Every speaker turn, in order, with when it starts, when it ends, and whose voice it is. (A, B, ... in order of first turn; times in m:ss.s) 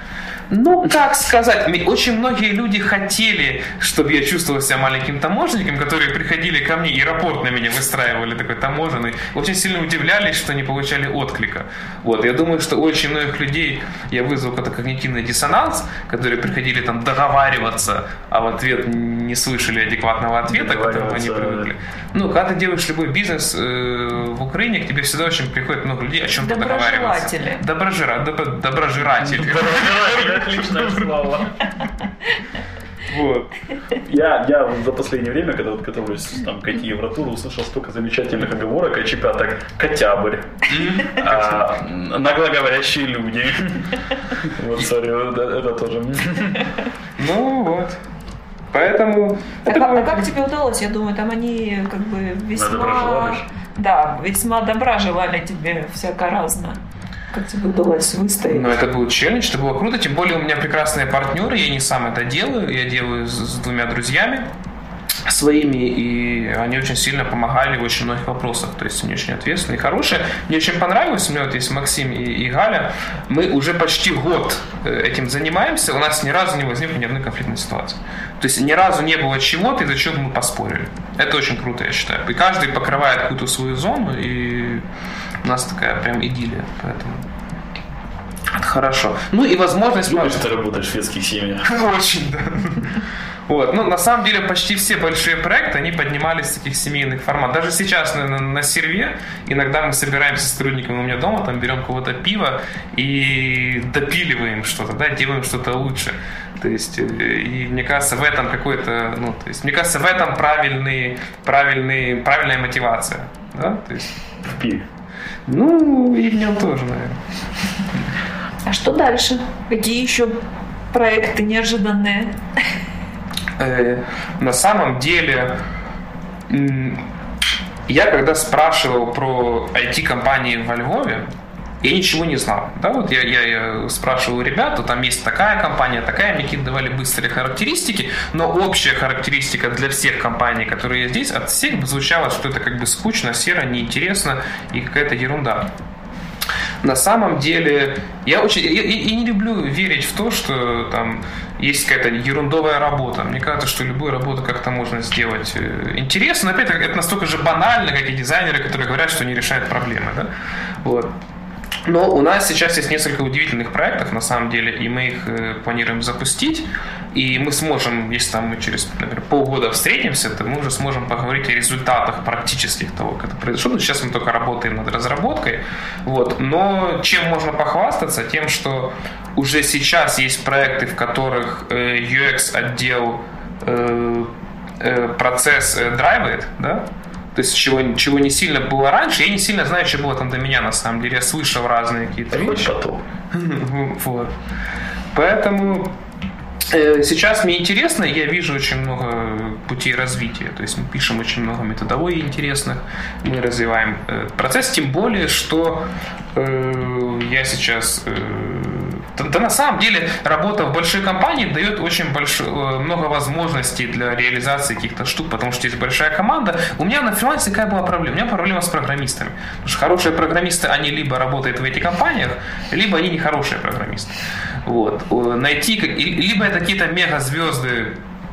0:00.5-0:31.0 A
0:20.5-0:21.7 B
0:26.4-0:27.6 C
0:29.2-0:31.7 B
0:33.1-0:33.6 A
0:34.0-0:46.7 B
0:40.7-0:41.6 A
0:47.2-0:48.0 A
0:48.7-0:50.2 A
0:49.7-0:56.8 C
0:52.6-0:53.5 B
0:57.3-0:58.8 C
0:58.5-1:04.5 A
1:05.3-1:24.8 A
1:25.4-1:27.2 A
1:28.5-1:30.4 A
1:30.0-1:31.7 B
1:31.6-1:54.2 A
1:54.4-1:54.8 B
1:55.5-1:57.2 A
1:58.6-2:00.4 C
2:00.9-2:02.4 C
2:03.6-2:05.6 A
2:06.5-2:07.0 A
2:07.9-2:11.3 A
2:11.8-2:25.7 A
2:26.8-2:40.3 A
2:40.8-2:41.1 A
2:41.9-3:12.7 A
3:12.3-3:13.0 B
3:13.3-3:14.3 A
3:15.1-3:16.0 A
3:16.7-3:48.0 A